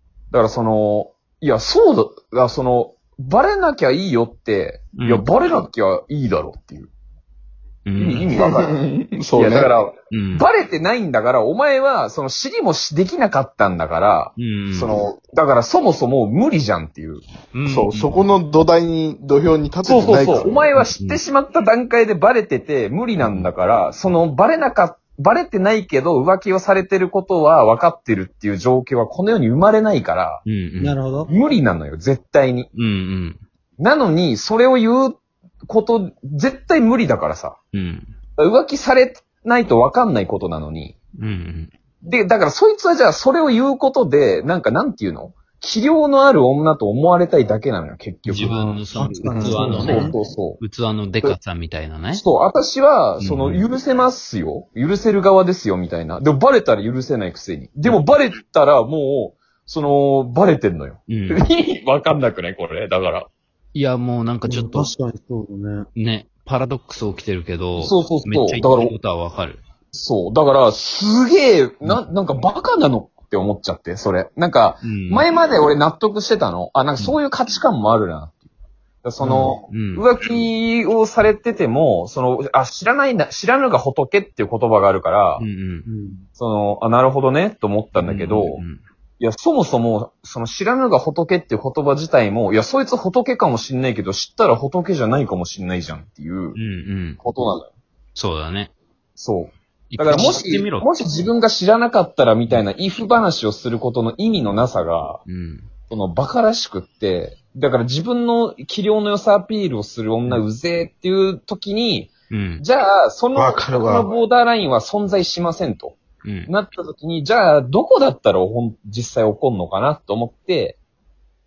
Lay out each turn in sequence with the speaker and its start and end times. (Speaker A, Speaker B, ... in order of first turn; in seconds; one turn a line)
Speaker A: 0.3-6.9
Speaker B: 5.0-5.3
Speaker B: 7.9-8.3
Speaker A: 8.0-8.8
Speaker C: 8.3-9.7
Speaker A: 9.3-17.2
Speaker B: 10.1-10.4
Speaker B: 14.4-14.9
Speaker B: 17.5-18.3
Speaker C: 17.6-20.6
Speaker A: 19.9-30.4
Speaker B: 20.8-21.2
Speaker B: 23.2-23.5
Speaker B: 30.5-31.0
Speaker D: 30.8-31.3
Speaker A: 31.3-32.7
Speaker B: 32.8-33.4
Speaker A: 33.8-37.6
Speaker B: 37.7-38.1
Speaker A: 38.4-41.0
Speaker B: 41.2-41.7
Speaker A: 42.0-50.6
Speaker B: 48.3-52.2
Speaker D: 48.9-50.2
Speaker C: 49.4-49.6
Speaker A: 52.1-63.3
Speaker B: 53.2-53.7
Speaker B: 61.1-61.4
Speaker B: 63.8-64.9
Speaker D: 64.5-65.9
Speaker B: 66.0-69.6
Speaker A: 67.8-69.0
Speaker A: 69.9-78.4
Speaker B: 74.8-75.2
Speaker A: 79.0-85.4
Speaker D: 79.2-79.5
Speaker B: 79.7-80.1
Speaker B: 85.4-85.9
Speaker D: 85.9-86.2
Speaker A: 86.4-88.6
Speaker B: 88.0-88.8
Speaker A: 89.2-96.6
Speaker B: 96.6-97.2
Speaker A: 97.2-97.7
Speaker B: 98.2-98.7
Speaker A: 99.2-105.2
Speaker B: 99.9-100.9
Speaker B: 105.3-105.7
Speaker A: 105.9-120.8
Speaker B: 112.3-112.6
Speaker C: 113.3-114.1
Speaker B: 116.2-116.5